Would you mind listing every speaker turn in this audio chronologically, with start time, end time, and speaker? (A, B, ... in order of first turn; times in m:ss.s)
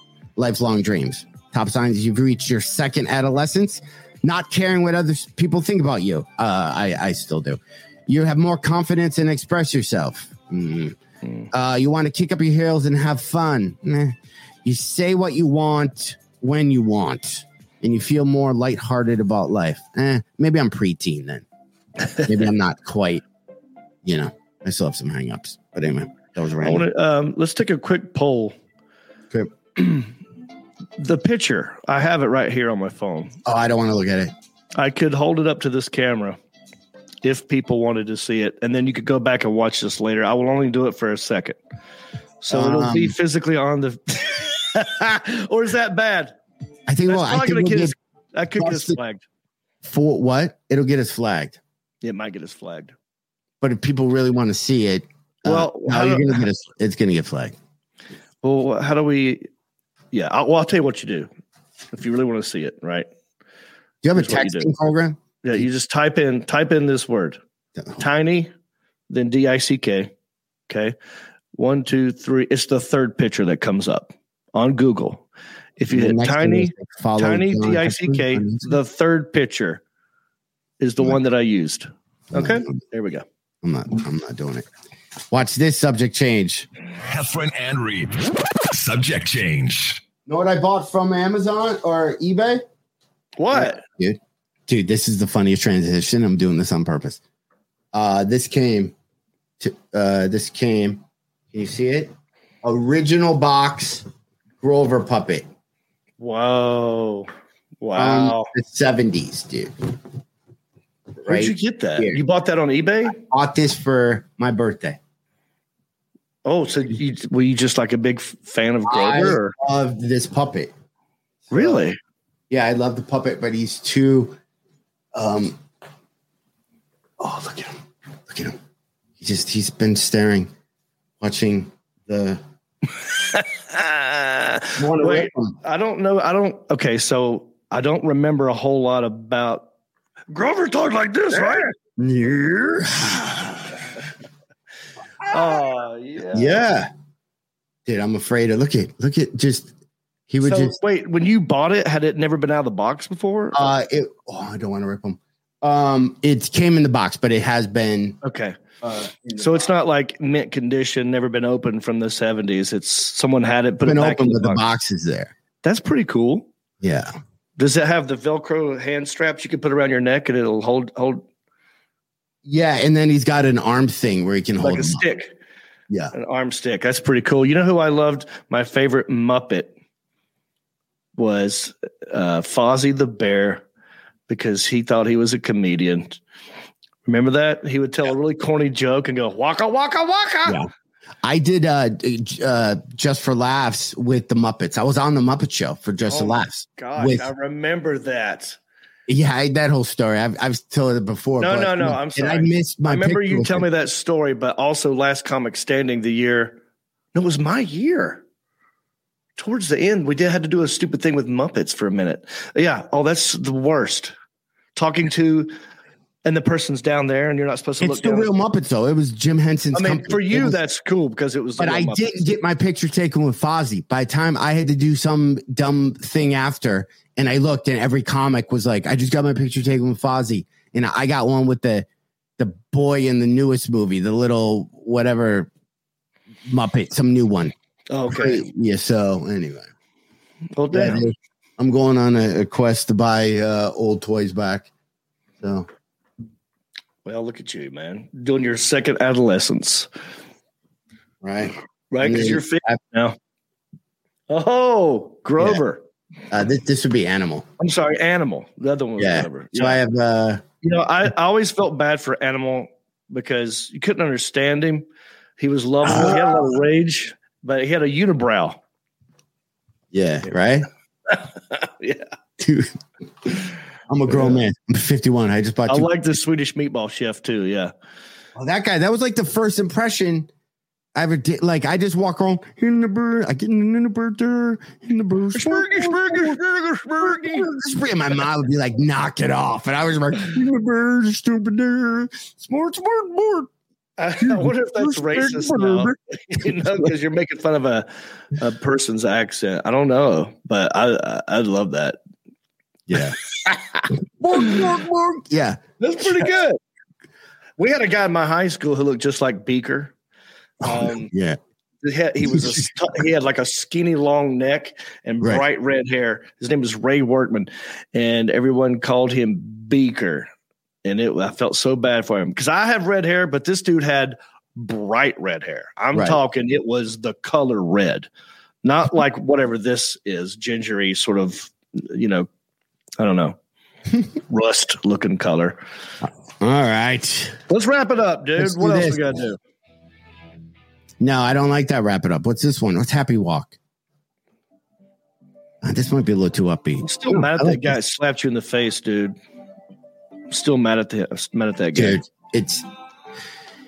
0:00.4-0:11.0 A
0:11.5-0:21.4 A
0:22.2-0:23.2 A
0:24.0-0:26.9 A
0:26.6-0:28.6 B
0:29.8-0:30.1 B
0:31.0-0:33.4 B
0:33.4-0:34.3 A
0:34.8-0:36.4 B
0:37.2-0:41.6 B
0:42.4-0:46.3 B
0:42.5-0:43.2 A
0:46.9-0:48.0 A
0:47.1-0:49.2 B
0:48.6-0:49.0 A
0:49.8-0:51.6 A
0:52.0-0:52.9 B
0:53.6-0:57.6 A
0:55.4-0:56.4 B
0:58.4-0:59.4 B
1:00.1-1:01.3 B
1:01.9-1:03.1 B
1:04.0-1:05.2 A
1:04.2-1:04.7 B
1:05.4-1:07.4 B
1:08.0-1:08.5 B
1:09.1-1:10.1 B
1:10.7-1:11.0 B
1:11.6-1:15.3 B
1:15.8-1:19.8 B
1:15.9-1:18.7 A
1:20.8-1:23.2 B
1:22.3-1:22.8 A
1:23.6-1:24.7 A
1:25.3-1:26.7 A
1:27.0-1:30.0 C
1:30.3-1:32.6 A
1:33.4-1:33.8 B
1:33.5-1:37.2 A
1:37.9-1:38.9 A
1:39.6-1:42.1 A
1:42.6-1:44.1 A
1:44.6-1:45.4 A
1:46.2-1:47.3 B
1:47.8-1:48.5 B
1:48.0-1:49.7 A
1:51.3-1:52.2 A
1:51.3-1:53.2 B
1:53.2-1:55.0 A
1:56.4-1:59.5 B
1:58.9-2:00.7 A
2:01.5-2:01.9 A
2:01.5-2:02.0 B
2:02.5-2:04.4 A
2:05.1-2:05.6 A
2:07.2-2:07.8 A
2:08.3-2:08.6 A
2:09.2-2:10.5 A
2:11.2-2:12.4 A
2:13.2-2:19.7 B
2:14.8-2:15.6 A
2:20.3-2:21.7 B
2:21.3-2:23.7 A
2:25.3-2:26.6 B
2:26.3-2:26.9 A
2:27.9-2:29.7 A
2:30.3-2:30.8 A
2:30.4-2:33.7 B
2:33.5-2:38.2 A
2:38.2-2:38.6 B
2:38.8-2:39.6 A
2:39.4-2:44.6 B
2:43.8-2:45.3 A
2:45.6-2:46.5 B
2:46.8-2:47.1 A
2:47.6-2:51.3 B
2:52.4-2:55.0 A
2:54.6-2:55.4 B
2:56.1-2:59.7 B
3:01.2-3:03.6 B
3:04.3-3:06.2 B
3:07.1-3:10.6 B
3:11.2-3:17.3 A
3:16.1-3:18.6 B
3:19.1-3:23.7 A
3:21.4-3:26.6 B
3:27.1-3:28.2 B
3:29.4-3:34.1 B
3:34.7-3:35.5 B
3:36.2-3:38.3 B
3:37.8-3:40.6 A
3:39.7-3:42.1 B
3:41.6-3:51.9 A
3:52.4-3:55.5 A
3:56.4-3:57.5 A
3:57.9-3:58.4 B
3:58.1-3:59.7 A
4:00.6-4:01.1 B
4:00.7-4:04.7 A
4:05.4-4:05.7 A
4:07.0-4:09.9 B
4:11.2-4:12.8 A
4:11.9-4:13.2 B
4:14.3-4:15.8 B
4:16.3-4:17.5 A
4:17.6-4:19.8 B
4:19.0-4:20.4 A
4:20.6-4:24.9 B
4:25.4-4:28.6 B
4:25.8-4:26.5 A
4:29.9-4:30.7 A
4:31.1-4:32.1 B
4:32.4-4:32.7 A
4:33.2-4:35.9 A
4:34.1-4:34.4 B
4:35.7-4:37.7 B
4:38.4-4:40.3 A
4:41.0-4:46.4 A
4:45.4-4:47.5 B
4:47.0-4:53.5 A
4:54.0-5:02.0 B
4:54.2-4:56.9 A
5:02.9-5:03.2 A
5:03.3-5:04.6 B
5:03.9-5:06.3 A
5:05.8-5:06.6 B
5:07.6-5:09.9 B
5:10.6-5:11.4 A
5:10.6-5:11.1 B
5:11.8-5:20.3 B
5:12.2-5:12.7 A
5:20.8-5:28.1 B
5:25.9-5:26.2 A
5:28.6-5:32.3 B
5:33.0-5:33.4 B
5:34.3-5:35.6 B
5:36.4-5:37.4 A
5:37.5-5:39.4 B
5:38.4-5:39.2 A
5:41.0-5:43.6 A
5:45.6-5:47.7 A
5:46.8-5:49.2 B
5:50.3-5:52.0 B
5:51.7-5:52.6 A